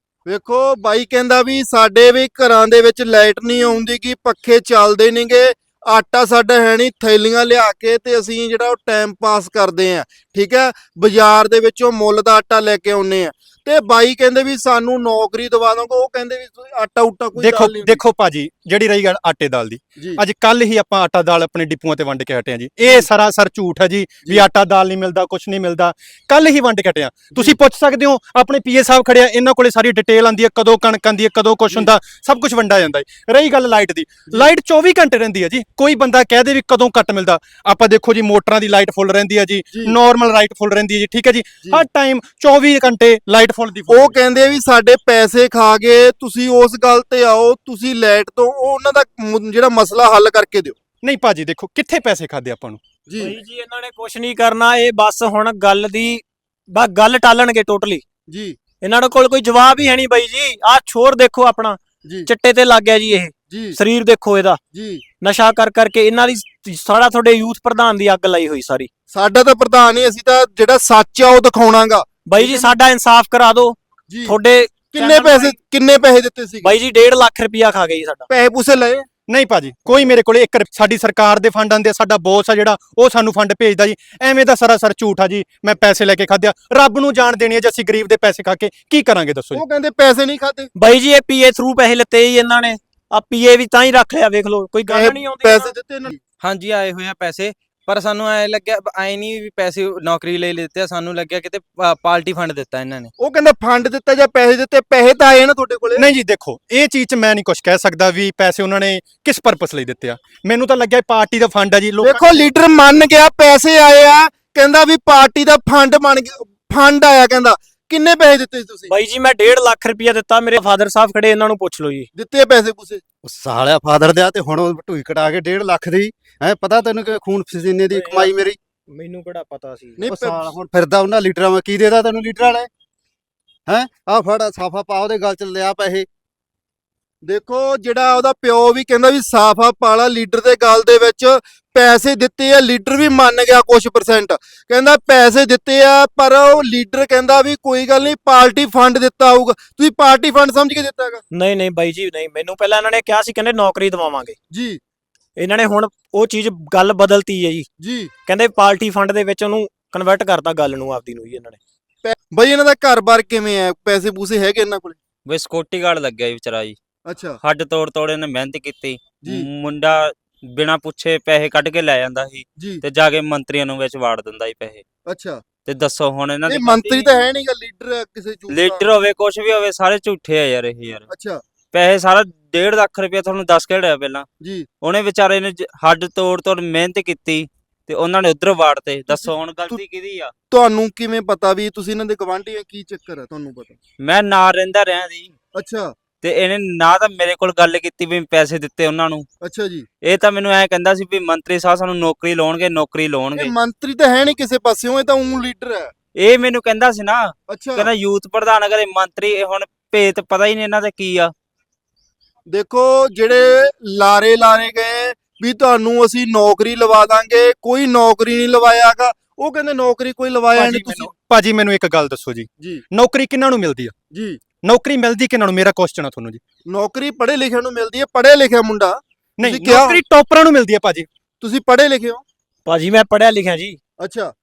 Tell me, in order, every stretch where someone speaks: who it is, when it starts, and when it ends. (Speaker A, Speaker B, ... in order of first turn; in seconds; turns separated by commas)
Speaker A: 0.2-18.0, Speaker B: 17.4-44.2, Speaker A: 43.9-50.8, Speaker B: 51.0-52.8, Speaker A: 53.1-53.4, Speaker C: 53.2-58.0, Speaker A: 58.3-58.6, Speaker C: 58.8-64.6, Speaker A: 63.5-63.8, Speaker A: 64.7-65.0, Speaker C: 65.2-68.9, Speaker A: 69.1-72.7, Speaker C: 72.3-75.5, Speaker A: 74.1-74.3, Speaker A: 74.9-76.7, Speaker C: 76.6-78.3, Speaker A: 78.3-79.1, Speaker B: 79.3-89.6, Speaker A: 89.5-90.7, Speaker C: 90.7-95.7, Speaker A: 94.9-96.2, Speaker D: 96.4-103.1, Speaker A: 103.2-106.1, Speaker B: 106.0-112.3, Speaker A: 112.0-118.9, Speaker C: 118.9-122.1, Speaker A: 122.2-123.0, Speaker E: 123.2-128.6, Speaker C: 127.9-128.2, Speaker C: 128.9-130.0, Speaker A: 130.0-130.5, Speaker E: 130.1-132.7, Speaker E: 133.7-136.1, Speaker A: 137.2-151.2, Speaker C: 151.3-154.4, Speaker A: 154.5-154.8, Speaker C: 155.4-157.7, Speaker A: 157.8-158.1, Speaker C: 158.2-161.6, Speaker A: 162.0-165.0, Speaker F: 165.2-166.8, Speaker A: 167.1-167.4, Speaker F: 167.4-174.8, Speaker A: 175.1-175.4, Speaker F: 175.7-177.1, Speaker A: 176.5-178.8, Speaker F: 178.5-181.0, Speaker A: 181.1-181.4, Speaker F: 181.7-184.2, Speaker A: 184.4-184.7, Speaker F: 184.8-190.3, Speaker A: 189.1-189.8, Speaker A: 190.5-193.8, Speaker F: 194.0-195.3, Speaker A: 195.5-195.9, Speaker F: 196.2-199.3, Speaker A: 199.4-199.9, Speaker F: 200.0-203.5, Speaker A: 203.3-205.9, Speaker F: 206.2-211.3, Speaker A: 207.5-207.9, Speaker A: 212.5-221.1, Speaker B: 220.6-223.9, Speaker A: 224.1-224.4, Speaker B: 224.6-226.4, Speaker A: 226.7-230.0, Speaker B: 229.4-231.1, Speaker A: 231.4-232.2, Speaker C: 232.7-233.8, Speaker A: 234.0-234.3